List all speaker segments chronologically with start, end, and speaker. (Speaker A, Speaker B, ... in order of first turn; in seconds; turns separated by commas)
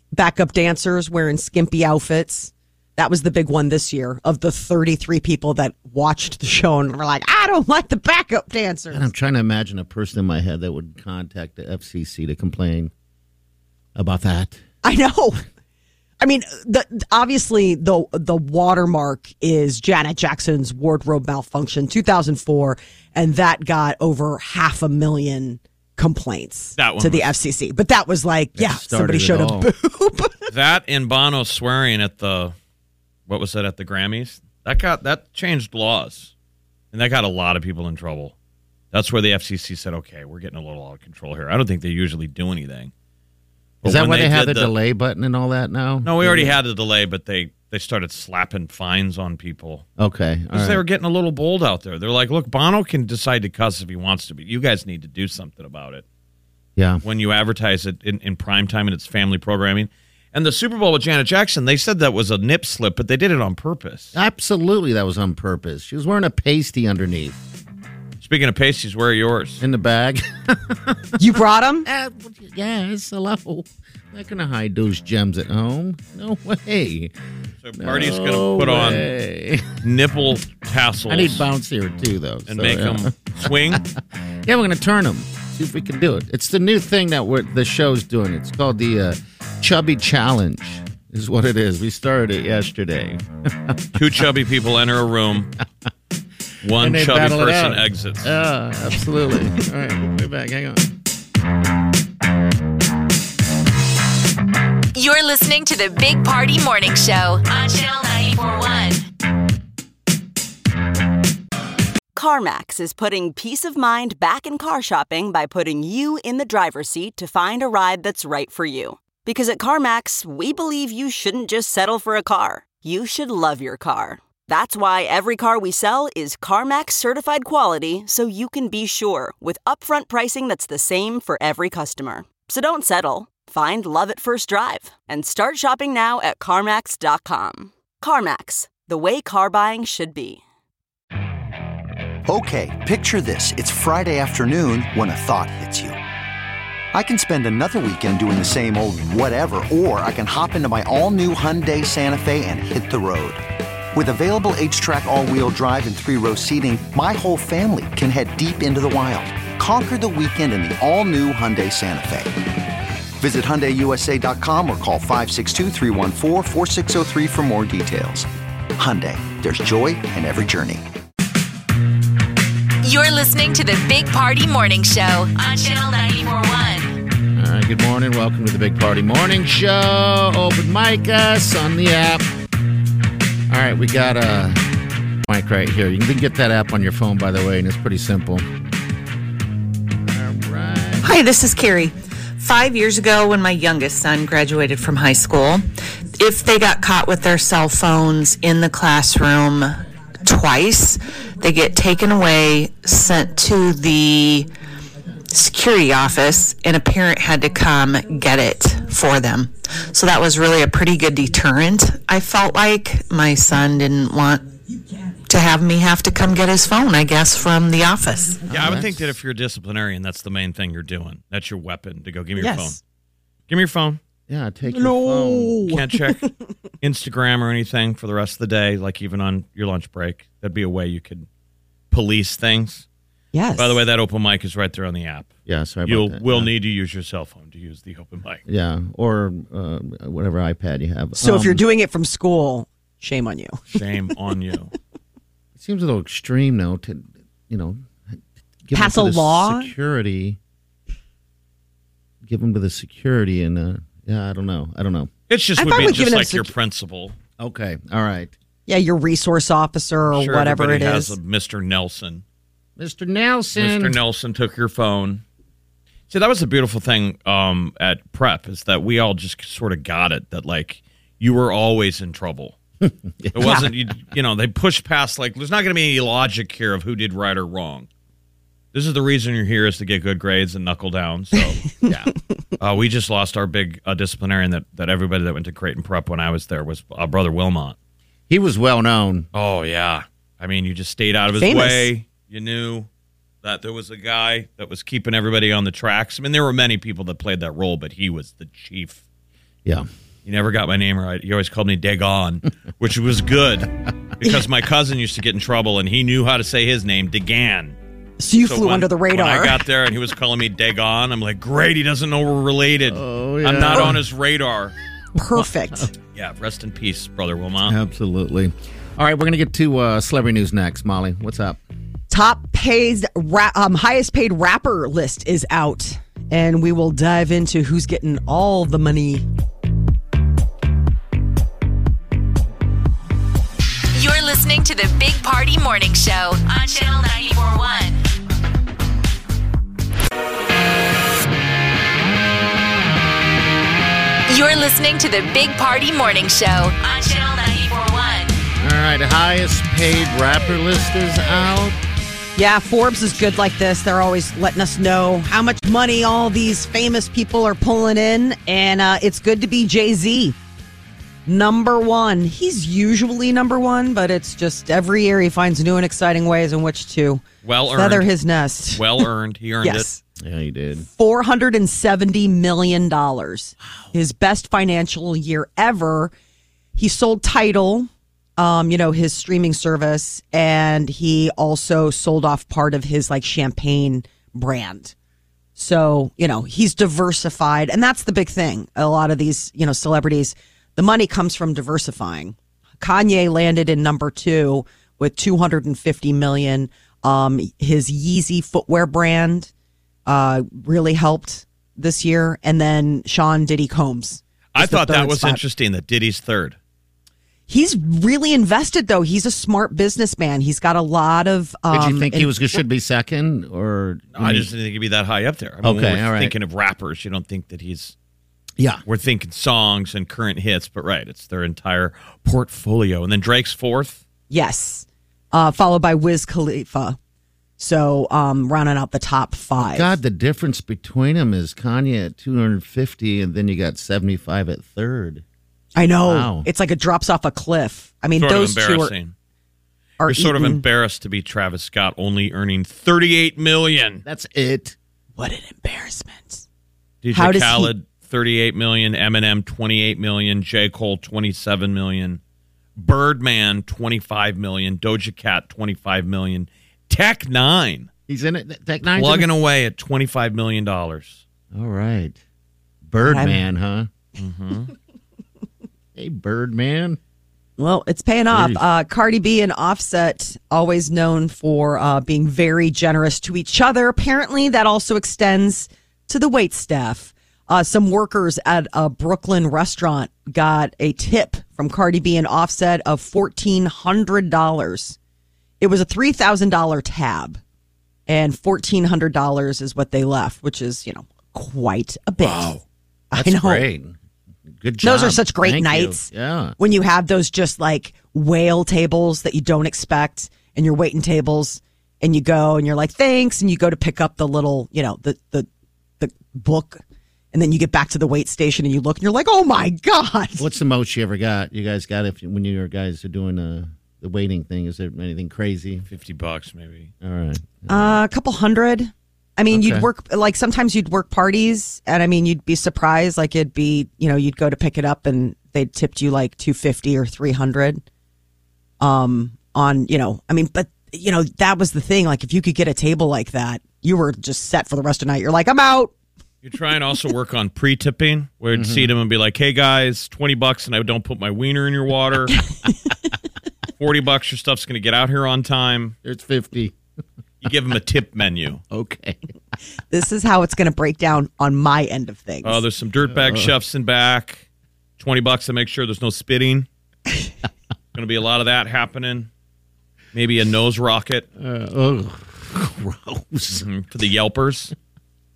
Speaker A: 0.1-9.1, Speaker B: 8.9-12.9, Speaker B: 13.9-14.6, Speaker A: 14.8-15.4, Speaker A: 16.2-30.5, Speaker C: 26.8-27.2, Speaker B: 28.6-29.7, Speaker C: 30.5-32.5, Speaker C: 33.3-36.3, Speaker C: 36.9-38.3, Speaker C: 38.9-42.9, Speaker C: 43.8-44.7, Speaker B: 43.8-46.5, Speaker C: 46.0-49.9, Speaker B: 50.0-50.8, Speaker C: 50.5-56.0, Speaker B: 56.8-57.0, Speaker C: 57.0-64.1, Speaker B: 64.1-67.4, Speaker C: 68.2-69.6, Speaker B: 69.6-71.0, Speaker A: 71.2-71.9, Speaker B: 71.8-77.1, Speaker C: 77.6-79.0, Speaker B: 77.8-79.7, Speaker C: 79.8-81.4, Speaker B: 81.1-93.8, Speaker C: 82.5-83.8, Speaker C: 94.0-95.5, Speaker C: 96.6-98.3, Speaker B: 96.8-100.8, Speaker D: 104.9-109.0, Speaker E: 112.2-140.4, Speaker F: 142.3-146.0, Speaker F: 146.9-153.4, Speaker F: 153.9-162.3, Speaker F: 163.2-170.8, Speaker D: 172.8-177.0, Speaker B: 177.4-182.3, Speaker B: 183.5-184.6, Speaker B: 185.3-188.5, Speaker B: 190.1-191.1, Speaker G: 191.0-204.5, Speaker G: 205.3-214.5, Speaker G: 215.3-218.4, Speaker B: 218.5-219.1, Speaker C: 218.5-222.8, Speaker A: 222.4-222.8, Speaker C: 223.5-224.0, Speaker B: 224.3-225.6, Speaker A: 224.7-225.9, Speaker C: 225.7-226.3, Speaker C: 226.8-231.3, Speaker C: 231.9-232.8, Speaker A: 233.3-233.8, Speaker C: 233.6-235.3, Speaker B: 235.5-236.5, Speaker C: 235.9-238.4, Speaker B: 238.5-241.6, Speaker A: 241.2-243.6, Speaker C: 243.7-244.7, Speaker B: 245.6-247.8, Speaker B: 248.7-250.4, Speaker A: 248.7-249.7, Speaker B: 252.2-255.1, Speaker C: 255.3-257.2, Speaker A: 255.6-256.5, Speaker B: 257.4-258.3, Speaker A: 258.7-261.2, Speaker C: 260.1-262.2, Speaker B: 262.8-264.0, Speaker C: 263.6-265.2, Speaker C: 266.1-272.6, Speaker B: 272.8-273.8, Speaker C: 273.3-277.9, Speaker A: 273.4-273.7, Speaker C: 278.7-281.8, Speaker C: 282.6-287.8, Speaker B: 288.3-289.3, Speaker C: 289.3-292.9, Speaker A: 291.3-291.9, Speaker C: 293.4-299.0, Speaker C: 300.2-307.8, Speaker A: 308.2-309.6, Speaker C: 308.4-314.8, Speaker B: 312.9-314.0, Speaker A: 315.2-315.9, Speaker B: 315.4-315.9, Speaker C: 316.1-317.8, Speaker B: 317.6-321.6, Speaker A: 322.1-329.2, Speaker D: 333.9-338.0, Speaker D: 344.3-348.4, Speaker B: 348.6-351.8, Speaker A: 352.4-360.4, Speaker A: 361.3-369.1, Speaker C: 367.4-368.1, Speaker C: 368.8-369.9, Speaker A: 369.6-370.0, Speaker B: 370.2-370.9, Speaker A: 370.9-376.1, Speaker A: 376.8-384.9, Speaker A: 385.6-399.5, Speaker A: 400.1-405.4, Speaker C: 404.5-406.6, Speaker A: 407.5-412.6, Speaker B: 411.7-414.5, Speaker C: 414.1-417.9, Speaker B: 415.6-416.3, Speaker B: 418.6-418.8, Speaker C: 418.9-424.0, Speaker A: 424.3-427.0, Speaker A: 427.6-430.0, Speaker B: 429.6-435.2, Speaker A: 435.8-438.9, Speaker B: 436.1-436.5, Speaker C: 438.2-439.1, Speaker A: 440.0-440.6, Speaker C: 440.1-444.0, Speaker B: 444.1-444.8, Speaker A: 445.2-446.4, Speaker C: 447.0-452.2, Speaker A: 447.1-447.7, Speaker C: 452.8-457.9, Speaker B: 458.1-459.3, Speaker C: 458.9-461.2, Speaker B: 461.5-462.2, Speaker B: 462.9-463.9, Speaker A: 463.0-463.4, Speaker C: 464.2-464.7, Speaker B: 465.9-467.0, Speaker A: 467.6-485.0, Speaker B: 468.3-468.6, Speaker A: 485.6-487.4, Speaker A: 488.1-492.6, Speaker A: 493.1-493.6, Speaker B: 493.1-494.0, Speaker B: 494.6-496.6, Speaker A: 494.8-496.1, Speaker A: 496.6-505.5, Speaker A: 506.0-506.8, Speaker A: 507.3-510.5, Speaker B: 510.4-515.9, Speaker C: 515.9-516.9, Speaker B: 517.0-518.0, Speaker A: 517.7-527.8, Speaker B: 519.5-519.9, Speaker A: 528.8-535.9, Speaker C: 536.4-542.4, Speaker B: 538.5-538.9, Speaker C: 543.8-546.0, Speaker B: 546.0-546.8, Speaker C: 547.4-548.6, Speaker B: 548.7-549.2, Speaker A: 549.9-552.6, Speaker C: 552.4-554.4, Speaker B: 553.1-553.5, Speaker C: 555.0-556.7, Speaker C: 558.0-559.3, Speaker C: 560.1-561.3, Speaker B: 561.4-563.6, Speaker C: 563.5-564.7